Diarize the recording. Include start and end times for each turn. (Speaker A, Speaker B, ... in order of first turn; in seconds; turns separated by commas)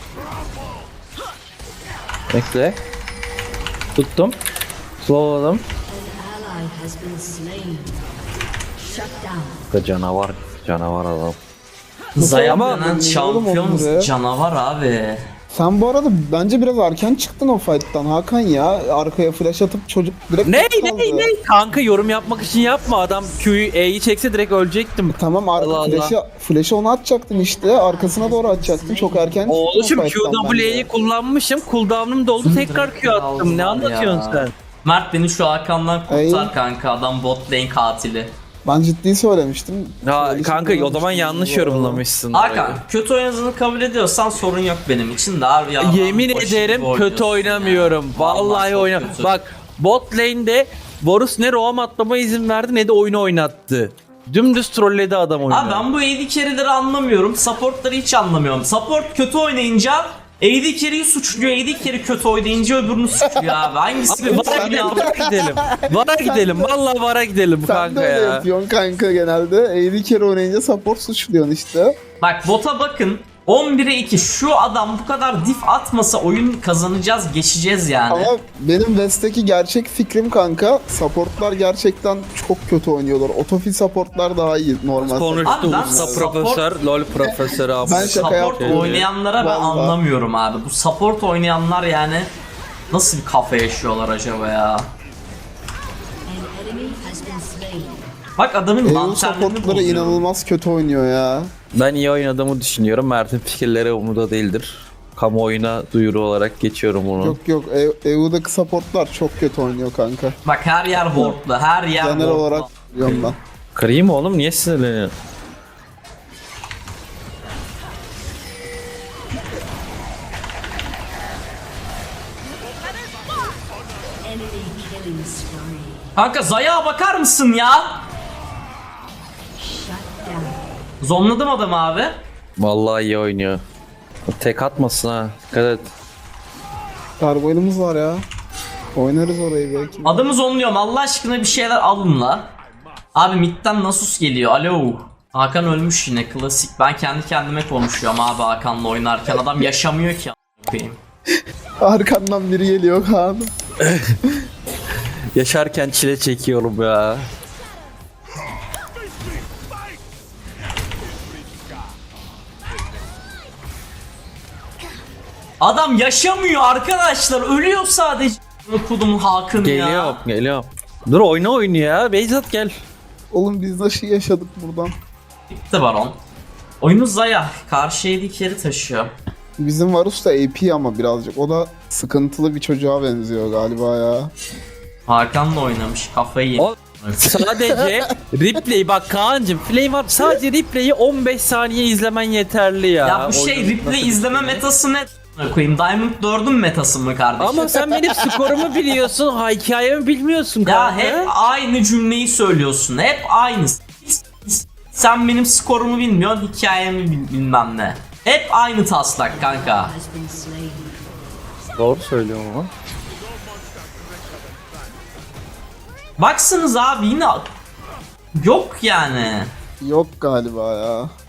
Speaker A: 2.3-2.8, Speaker A: 4.0-4.3, Speaker A: 5.0-5.6, Speaker B: 5.9-8.1, Speaker B: 8.8-9.6, Speaker A: 9.7-11.3, Speaker C: 12.1-15.2, Speaker D: 12.2-14.1, Speaker A: 12.4-12.9, Speaker D: 15.5-21.3, Speaker A: 20.4-26.1, Speaker B: 21.7-23.5, Speaker D: 25.1-30.9, Speaker B: 27.3-29.5, Speaker A: 29.5-34.5, Speaker C: 32.4-38.4, Speaker D: 36.1-36.5, Speaker D: 38.6-42.0, Speaker A: 40.0-42.8, Speaker C: 42.3-49.4, Speaker A: 45.8-55.8, Speaker C: 55.5-65.1, Speaker D: 63.2-63.7, Speaker A: 64.1-68.5, Speaker D: 64.2-66.7, Speaker D: 67.6-72.0, Speaker C: 72.2-78.3, Speaker D: 78.1-86.3, Speaker A: 85.0-89.1, Speaker C: 85.4-86.8, Speaker D: 87.1-90.0, Speaker C: 87.9-92.3, Speaker C: 92.9-94.9, Speaker B: 96.2-98.2, Speaker C: 98.4-100.2, Speaker D: 98.8-101.5, Speaker A: 101.7-107.4, Speaker D: 107.2-110.4, Speaker C: 110.4-113.3, Speaker D: 111.9-113.4, Speaker A: 113.8-115.1, Speaker B: 124.2-126.1, Speaker C: 126.2-128.0, Speaker B: 129.6-130.6, Speaker C: 131.0-132.2, Speaker A: 132.6-133.6, Speaker A: 134.3-135.9, Speaker D: 137.2-138.2, Speaker D: 138.9-140.3, Speaker C: 140.0-142.5, Speaker C: 143.1-151.0, Speaker D: 151.8-153.5, Speaker A: 153.8-154.2, Speaker A: 155.3-157.3, Speaker C: 165.6-170.2, Speaker A: 169.6-172.7, Speaker D: 173.3-174.9, Speaker C: 175.5-176.2, Speaker C: 176.8-179.1, Speaker D: 179.6-184.3, Speaker C: 185.1-187.3, Speaker A: 186.6-194.6, Speaker C: 193.0-197.8, Speaker A: 197.4-201.3, Speaker D: 198.0-198.6, Speaker C: 200.6-209.9, Speaker B: 209.2-211.3, Speaker A: 211.8-212.7, Speaker C: 216.2-217.4, Speaker C: 218.3-219.5, Speaker D: 219.8-221.1